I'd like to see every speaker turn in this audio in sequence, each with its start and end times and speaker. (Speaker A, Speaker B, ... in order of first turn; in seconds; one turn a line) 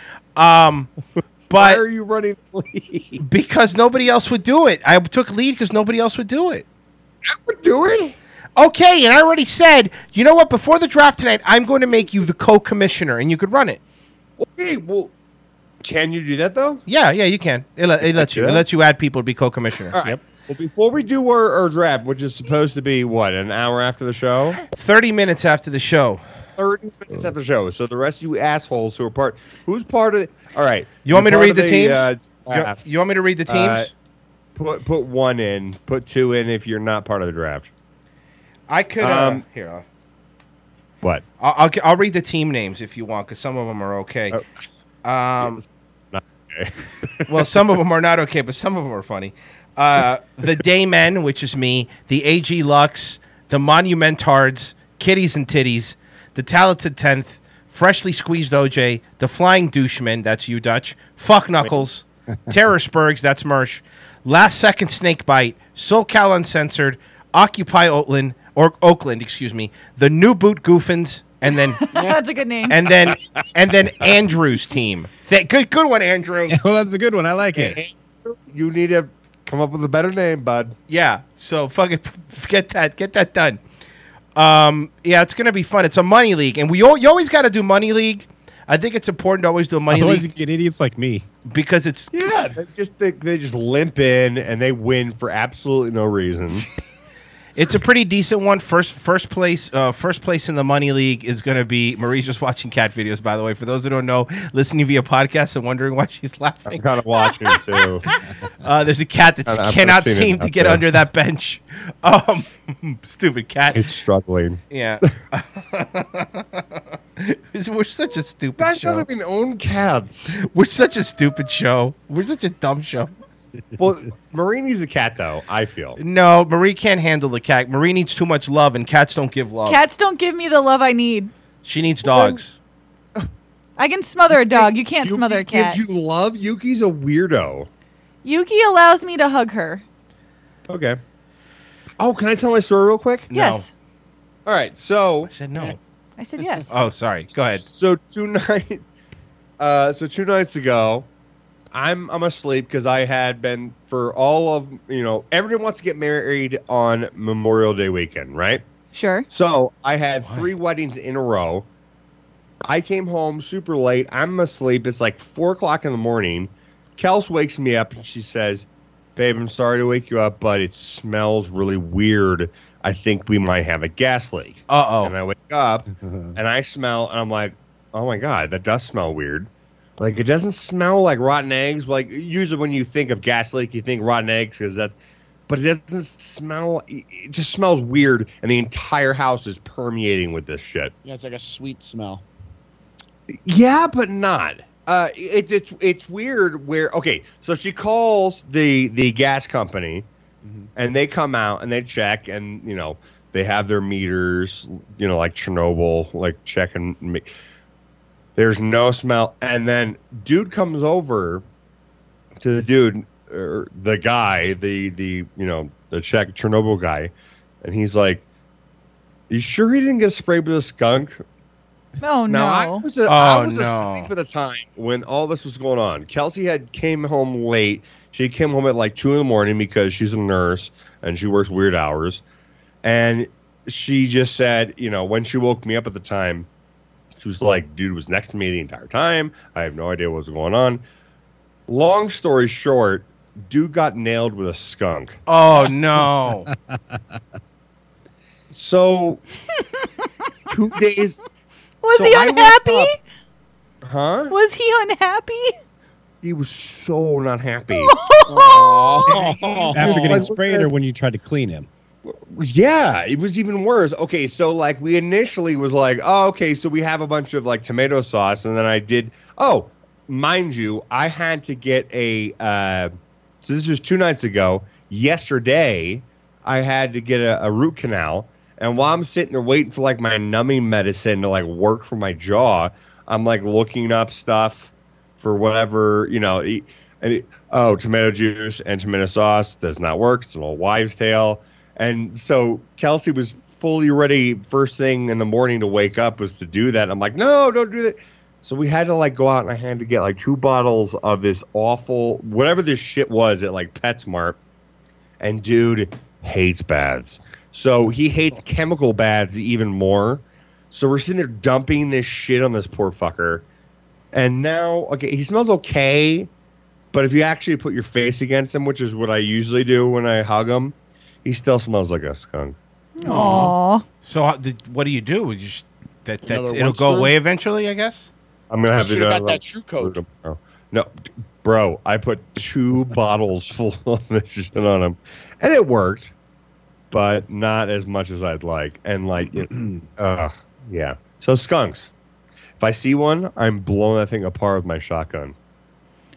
Speaker A: 0.4-0.9
Speaker A: 1.5-1.8
Speaker B: 1.5-3.2
Speaker A: 3.2-6.7
Speaker B: 7.2-8.2
Speaker A: 8.6-13.8
Speaker B: 14.4-15.1
Speaker B: 15.8-16.8
Speaker A: 16.9-20.2
Speaker B: 18.1-18.6
Speaker B: 19.9-24.6
Speaker A: 24.6-26.2
Speaker B: 26.6-32.8
Speaker A: 31.1-33.9
Speaker B: 33.5-33.9
Speaker B: 34.5-37.7
Speaker A: 38.7-39.9
Speaker B: 39.0-39.4
Speaker A: 41.4-44.4
Speaker A: 45.0-45.6
Speaker B: 45.4-47.4
Speaker A: 47.3-71.8
Speaker C: 71.8-72.8
Speaker A: 72.7-76.6
Speaker D: 76.5-77.8
Speaker B: 77.5-80.8
Speaker A: 80.9-83.6
Speaker A: 84.3-90.3
Speaker D: 89.9-91.3
Speaker A: 91.5-92.5
Speaker B: 92.1-96.7
Speaker A: 97.6-106.9
Speaker B: 106.7-108.0
Speaker A: 108.6-113.8
Speaker B: 109.5-110.8
Speaker B: 113.7-114.6
Speaker A: 114.7-116.6
Speaker A: 117.2-119.1
Speaker B: 118.6-120.4
Speaker A: 120.4-123.1
Speaker B: 123.8-126.0
Speaker A: 126.0-129.8
Speaker C: 129.7-131.3
Speaker A: 131.6-132.6
Speaker B: 132.1-132.4
Speaker C: 133.8-135.8
Speaker B: 134.3-137.7
Speaker C: 138.2-139.8
Speaker B: 140.7-141.0
Speaker B: 142.0-143.3
Speaker A: 143.3-143.7
Speaker C: 143.3-143.7
Speaker B: 144.5-145.3
Speaker A: 145.2-145.8
Speaker C: 146.2-146.7
Speaker A: 146.7-147.7
Speaker B: 147.3-148.8
Speaker B: 149.6-151.1
Speaker B: 151.7-158.6
Speaker C: 158.9-159.3
Speaker B: 159.3-161.7
Speaker A: 160.2-160.5
Speaker B: 162.6-185.0
Speaker A: 174.7-175.2
Speaker B: 185.5-190.9
Speaker E: 191.0-192.2
Speaker B: 193.3-200.1
Speaker E: 200.4-200.7
Speaker B: 200.8-207.3
Speaker B: 208.4-211.4
Speaker B: 212.4-218.2
Speaker B: 219.3-221.2
Speaker C: 222.0-222.9
Speaker B: 222.3-232.2
Speaker A: 223.1-224.1
Speaker B: 232.8-236.5
Speaker B: 237.2-240.8
Speaker B: 241.7-245.2
Speaker A: 245.3-246.5
Speaker D: 246.7-247.0
Speaker B: 248.5-249.2
Speaker B: 250.5-251.2
Speaker C: 251.8-253.0
Speaker B: 251.9-252.9
Speaker B: 253.8-254.3
Speaker C: 254.3-255.5
Speaker B: 256.2-257.9
Speaker C: 257.7-258.9
Speaker E: 258.3-260.3
Speaker B: 259.1-260.7
Speaker D: 259.7-261.7
Speaker B: 262.1-304.4
Speaker B: 305.2-313.4
Speaker B: 314.1-316.3
Speaker B: 316.9-322.6
Speaker C: 323.0-323.9
Speaker E: 323.0-323.5
Speaker A: 324.0-328.1
Speaker E: 326.2-327.1
Speaker B: 328.5-336.1
Speaker E: 328.8-330.0
Speaker B: 336.9-341.9
Speaker D: 339.5-339.8
Speaker B: 342.6-345.4